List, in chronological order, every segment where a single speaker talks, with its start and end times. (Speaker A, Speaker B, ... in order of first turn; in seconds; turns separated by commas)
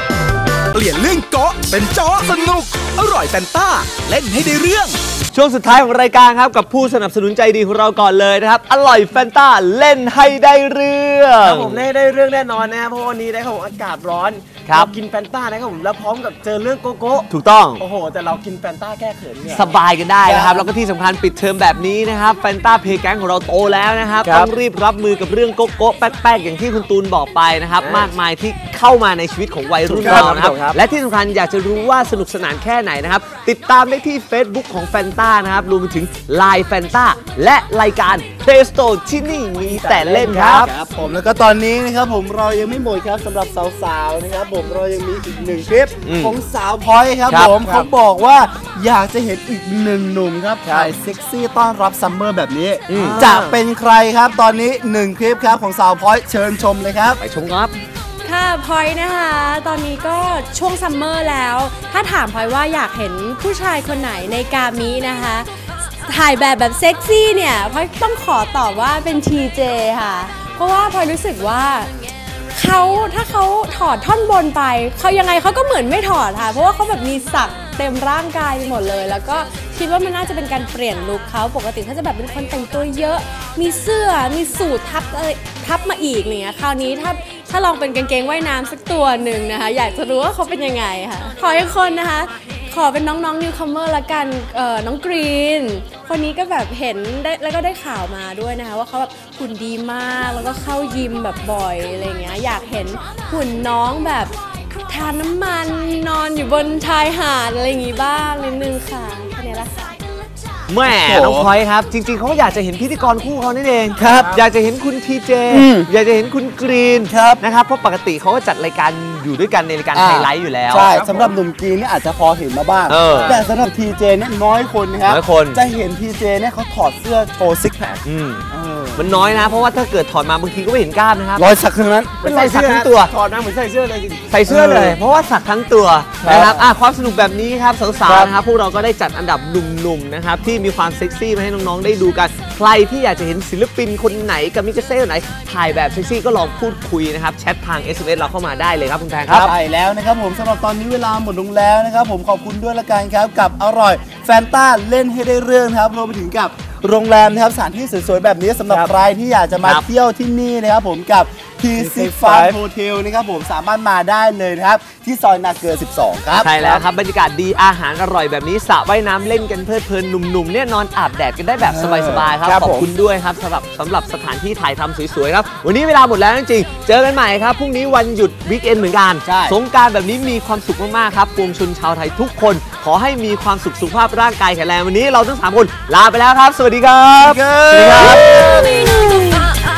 Speaker A: 0.7-5.0, Speaker B: 5.3-11.9, Speaker C: 11.4-17.3, Speaker B: 14.7-14.9, Speaker B: 17.3-17.8, Speaker C: 17.8-19.8, Speaker B: 19.5-40.7, Speaker D: 20.2-20.6, Speaker C: 24.2-24.5, Speaker C: 27.8-28.1, Speaker C: 29.9-30.8, Speaker D: 30.0-30.3, Speaker C: 39.6-40.9, Speaker D: 40.3-57.2, Speaker B: 46.1-46.4, Speaker B: 47.3-47.9, Speaker B: 50.7-50.9, Speaker B: 52.9-53.5, Speaker C: 53.0-53.4, Speaker B: 57.2-57.8, Speaker E: 58.2-65.5, Speaker E: 66.0-71.9, Speaker E: 72.5-104.3, Speaker E: 104.9-110.0, Speaker B: 110.7-120.9, Speaker D: 110.8-111.5, Speaker D: 114.0-114.3, Speaker C: 114.0-114.4, Speaker D: 115.5-115.9, Speaker D: 117.1-117.4, Speaker D: 119.9-128.8, Speaker C: 120.9-121.3, Speaker B: 122.9-123.4, Speaker C: 123.1-123.4, Speaker B: 125.1-125.6, Speaker B: 128.0-128.4, Speaker B: 129.0-131.6, Speaker D: 131.3-132.3, Speaker B: 132.2-133.1, Speaker C: 132.2-134.4, Speaker B: 134.3-149.5, Speaker D: 134.5-135.0, Speaker D: 136.2-136.7, Speaker D: 149.3-166.8, Speaker C: 161.8-162.6, Speaker B: 166.4-188.7, Speaker D: 171.6-172.3, Speaker C: 172.4-172.9, Speaker D: 179.2-179.6, Speaker D: 187.2-188.9, Speaker E: 188.0-189.5